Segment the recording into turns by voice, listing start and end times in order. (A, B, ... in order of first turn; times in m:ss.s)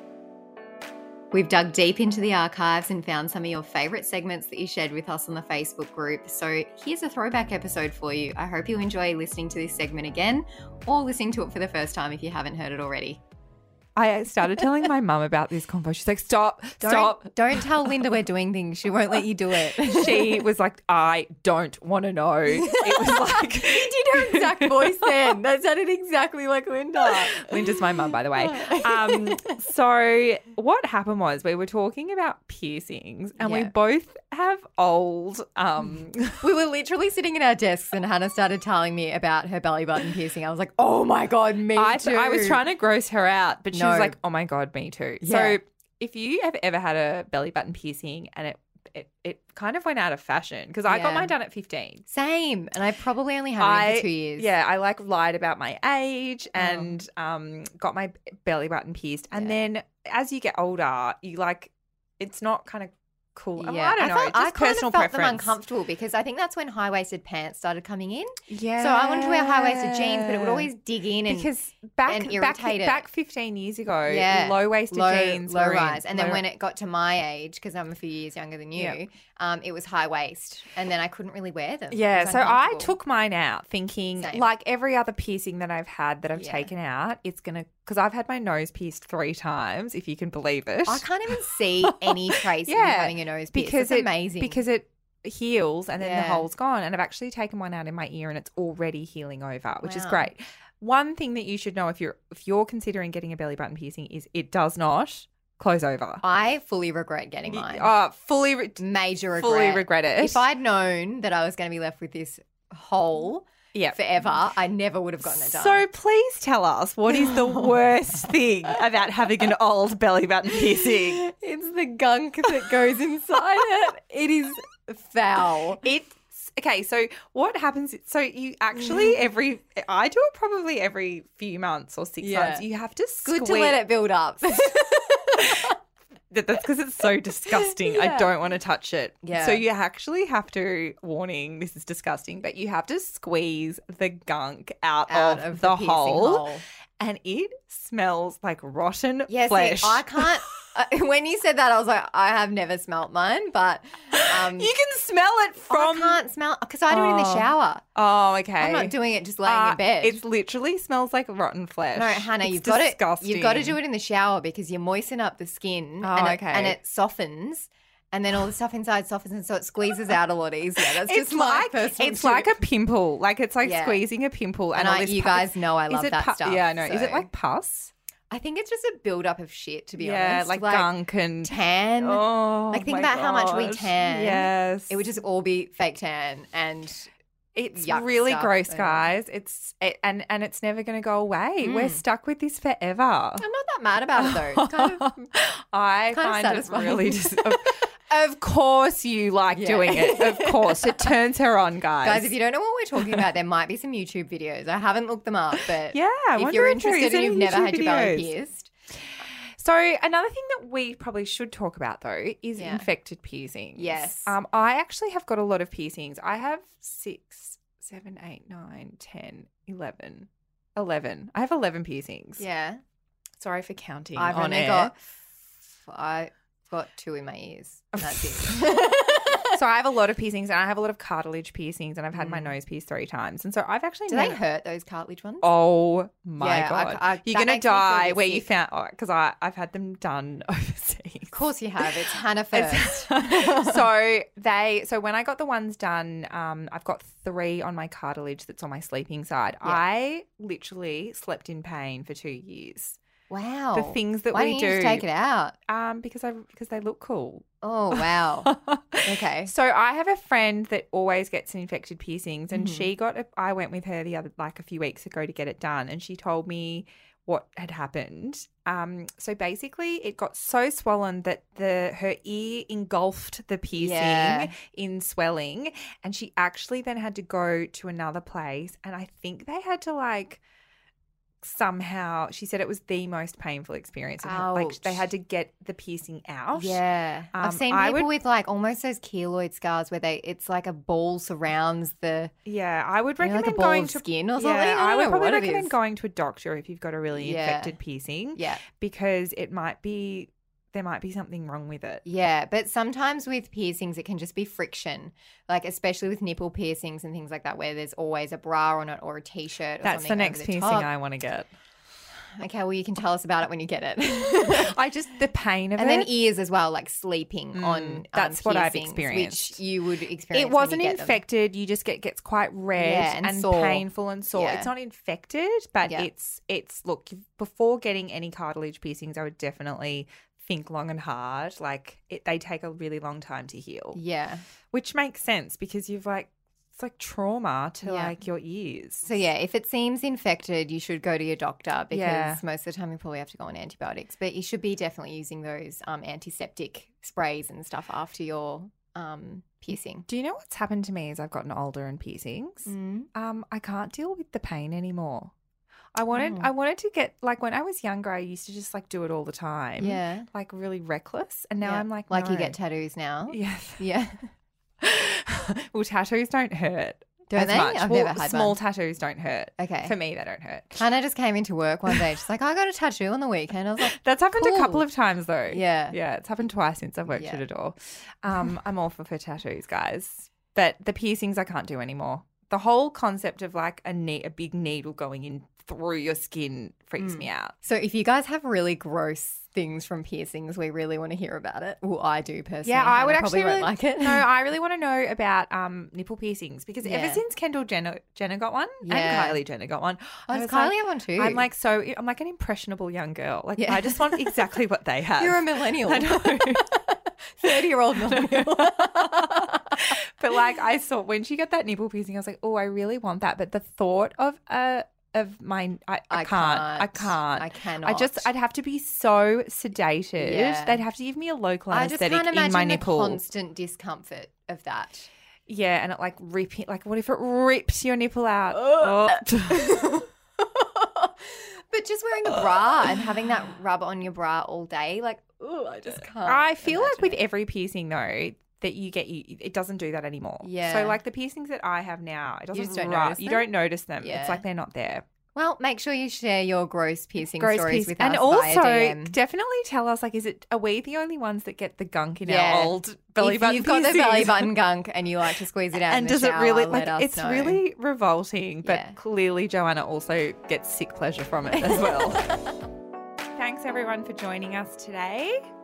0:01.3-0:13.2 A
0:14.0-0:17.7 B
0:16.8-0:20.4 A
0:19.8-0:25.2 B
0:22.5-0:29.6 A
0:27.0-0:36.5 B
0:33.4-0:33.7 A
0:36.4-0:42.6 A
0:41.8-0:52.0 B
0:43.7-0:44.2 A
0:45.2-0:45.6 A
0:50.9-0:51.3 A
0:52.1-0:54.5 A
0:53.6-1:05.6 B
0:56.6-0:56.9 A
1:03.6-1:11.5 A
1:08.5-1:10.7 B
1:11.3-1:16.4 B
1:12.1-1:13.1 A
1:14.0-1:23.0 A
1:21.9-1:31.1 B
1:24.2-1:24.5 A
1:26.4-1:26.7 A
1:30.9-1:34.6 A
1:31.8-1:46.2 B
1:36.0-1:36.5 A
1:39.8-1:40.3 A
1:46.2-1:47.9 A
1:47.5-1:48.8 B
1:48.8-1:55.9 A
1:49.4-1:50.4 B
1:55.2-2:01.2 B
1:57.1-1:57.7 A
2:00.8-2:05.8 A
2:05.8-2:13.9 B
2:12.2-2:12.7 A
2:13.2-2:15.7 A
2:16.3-2:26.5 B
2:17.6-2:18.2 A
2:19.2-2:19.6 A
2:25.1-2:26.6 A
2:27.0-2:30.4 B
2:29.3-2:34.7 A
2:34.1-2:36.2 B
2:35.7-2:37.8 A
2:36.9-2:43.8 B
2:38.6-2:40.2 A
2:41.9-2:52.6 A
2:46.0-2:46.8 B
2:51.0-2:57.9 B
2:53.6-2:54.0 A
2:54.7-2:57.3 A
2:58.3-3:07.1 A
3:00.0-3:05.0 B
3:07.6-3:13.4 B
3:07.8-3:09.1 A
3:11.6-3:12.0 A
3:13.4-3:15.2 A
3:14.2-3:22.3 B
3:16.1-3:17.4 A
3:19.5-3:21.1 A
3:22.0-3:28.7 A
3:25.9-3:28.3 B
3:29.2-3:42.4 B
3:32.6-3:32.9 A
3:33.8-3:34.3 A
3:42.4-3:42.8 A
3:43.4-3:44.9 B
3:44.2-3:44.9 A
3:45.8-3:49.6 A
3:48.0-3:48.8 B
3:49.5-3:54.4 B
3:52.1-3:52.6 A
3:54.1-3:55.5 A
3:55.4-4:02.0 B
3:56.4-3:58.5 A
4:01.3-4:03.8 A
4:02.5-4:13.0 B
4:13.3-4:15.6 A
4:13.7-4:15.0 B
4:15.7-4:40.4 B
4:17.6-4:18.5 A
4:19.0-4:19.5 A
4:22.5-4:22.9 A
4:33.8-4:34.5 A
4:41.4-4:46.8 B
4:44.2-4:45.1 A
4:46.5-4:52.3 A
4:47.3-4:48.1 B
4:52.5-5:02.0 B
4:53.2-4:55.8 A
4:57.1-4:57.8 A
4:58.3-4:58.6 A
5:02.0-5:10.9 A
5:09.8-5:11.5 B
5:12.4-5:14.8 A
5:14.4-5:16.1 B
5:15.8-5:21.2 A
5:17.5-5:19.6 B
5:20.3-5:34.0 B
5:22.8-5:24.7 A
5:33.9-5:34.4 A
5:34.7-5:39.2 B
5:37.8-5:38.2 A
5:39.0-5:50.1 A
5:41.9-5:42.4 B
5:50.1-5:55.3 B
5:52.7-5:53.1 A
5:56.0-6:02.6 B
5:56.1-5:56.5 A
5:59.8-6:00.3 A
6:01.6-6:04.3 A
6:03.3-6:03.9 B
6:04.8-6:10.8 B
6:07.3-6:08.6 A
6:09.6-6:09.9 A
6:10.8-6:14.9 A
6:13.8-6:27.5 B
6:15.5-6:16.0 A
6:17.1-6:17.4 A
6:27.0-6:34.3 A
6:32.6-6:46.7 B
6:36.8-6:37.2 A
6:38.8-6:39.4 A
6:40.3-6:41.5 A
6:43.6-6:44.6 A
6:45.2-6:49.8 A
6:47.4-7:03.2 B
6:56.1-6:58.3 A
7:00.2-7:00.8 A
7:01.7-7:05.1 A
7:05.5-7:09.8 B
7:08.5-7:17.2 A
7:12.3-7:12.6 B
7:16.2-7:25.0 B
7:20.4-7:21.0 A
7:22.5-7:24.4 A
7:25.4-7:29.2 A
7:27.4-7:34.5 B
7:32.2-7:37.6 A
7:35.8-7:42.4 B
7:38.6-7:39.0 A
7:41.6-7:42.6 A
7:43.4-7:45.4 B